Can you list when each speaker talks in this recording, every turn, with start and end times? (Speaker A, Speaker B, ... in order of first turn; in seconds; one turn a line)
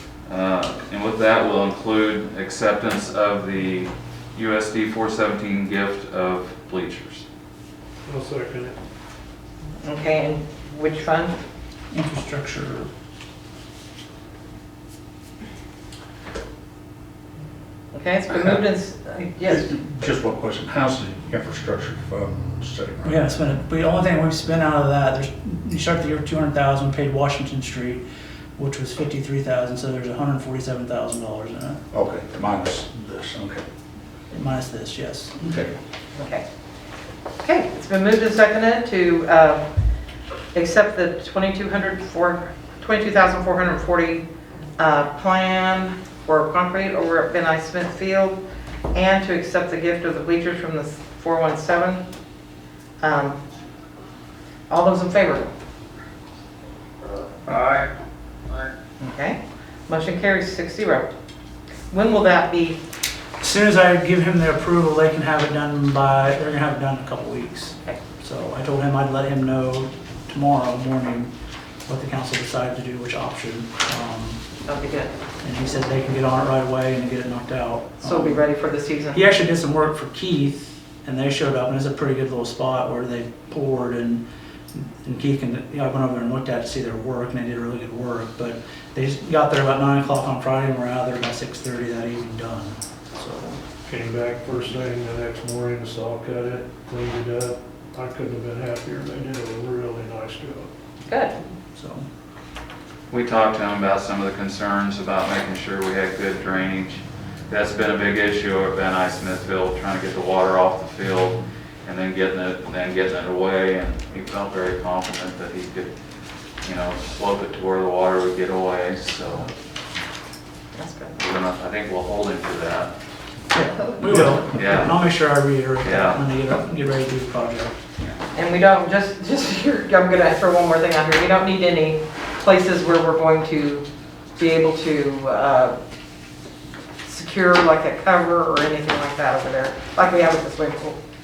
Speaker A: 0.3-7.2
Speaker B: 8.1-8.8
Speaker C: 9.8-11.4
Speaker D: 11.9-12.9
Speaker C: 17.9-19.7
Speaker E: 19.5-23.3
Speaker D: 23.0-28.0
Speaker D: 28.6-31.8
Speaker E: 31.9-33.6
Speaker D: 34.3-35.6
Speaker E: 35.4-35.7
Speaker C: 36.2-36.4
Speaker C: 37.4-39.6
Speaker C: 40.5-44.2
Speaker C: 44.8-48.4
Speaker C: 48.9-52.0
Speaker C: 53.0-53.4
Speaker C: 54.7-55.5
Speaker C: 59.0-61.1
Speaker C: 61.9-62.8
Speaker D: 63.4-71.3
Speaker D: 71.9-74.4
Speaker C: 74.7-75.1
Speaker D: 75.4-78.4
Speaker C: 78.0-79.2
Speaker D: 79.1-84.2
Speaker D: 84.7-93.6
Speaker B: 93.8-100.7
Speaker C: 101.1-101.3
Speaker D: 101.8-102.0
Speaker A: 103.1-115.9
Speaker A: 116.6-119.5
Speaker C: 120.7-121.1
Speaker A: 121.2-122.9
Speaker D: 123.5-127.8
Speaker A: 124.3-125.0
Speaker A: 125.8-126.2
Speaker C: 128.3-133.8
Speaker C: 134.4-135.7
Speaker C: 137.1-141.0